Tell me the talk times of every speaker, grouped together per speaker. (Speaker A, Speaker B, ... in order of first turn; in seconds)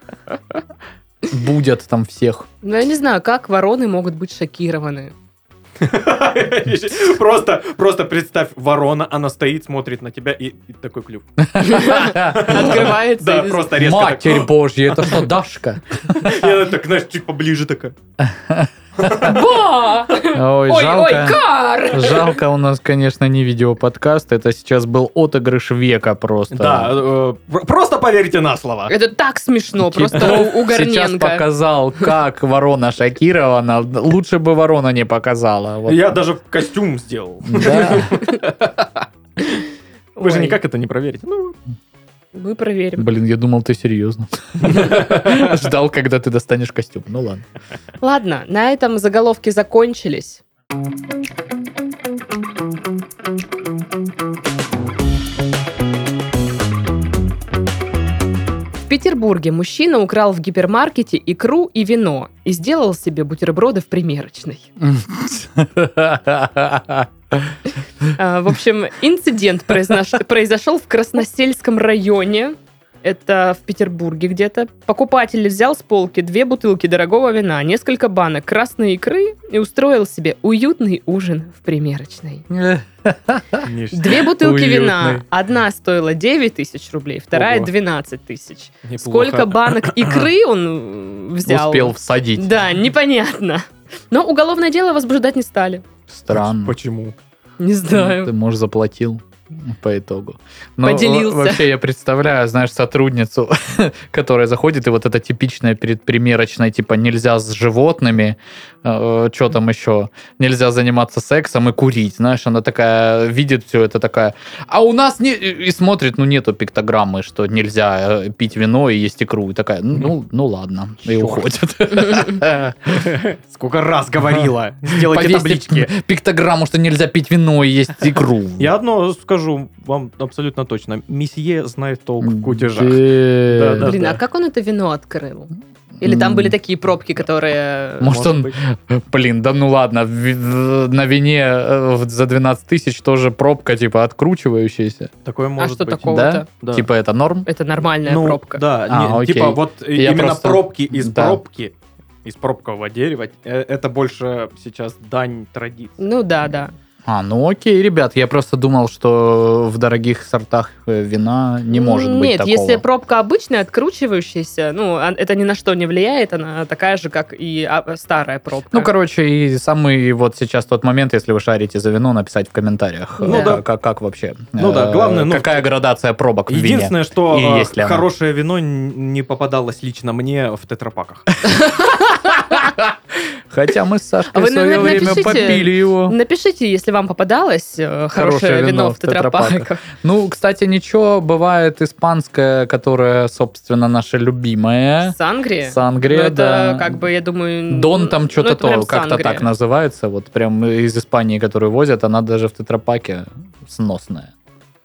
Speaker A: 1.3-2.5, 11.5-12.9, 13.8-16.6, 18.2-19.4, 20.3-26.9, 29.8-36.1, 37.5-38.2, 43.0-47.4, 64.8-67.6, 82.5-83.7, 84.2-85.2, 91.5-92.5, 96.1-96.8, 97.9-123.1, 124.9-128.7, 132.2-133.9, 136.0-136.6, 138.0-145.1, 146.1-147.5, 148.9-151.4, 157.1-162.8, 168.7-178.1, 182.2-182.9, 183.5-186.2, 188.2-197.0, 197.7-204.3
Speaker B: 2.6-5.1, 11.6-13.7, 19.1-22.4, 28.9-31.5, 40.2-40.6, 42.3-43.1, 48.0-50.4, 58.9-64.7, 68.2-82.5, 83.9-95.8, 97.6-98.3, 100.8-101.7, 133.8-138.2, 145.6-146.5, 147.5-148.6, 156.0-156.7, 161.7-168.9, 173.2-173.6, 181.5-182.4, 184.3-189.8, 195.0-199.5
Speaker C: 5.8-11.3, 11.8-15.2, 16.1-17.9, 26.5-28.9, 30.1-30.4, 35.9-39.6, 40.2-41.6, 44.6-45.5, 83.6-84.2, 87.3-87.7, 88.8-90.3, 96.3-97.2, 121.1-121.4, 122.9-125.9, 128.6-134.2, 138.0-138.6, 145.2-146.9, 148.1-156.0, 173.3-173.6, 174.6-175.7, 176.5-181.3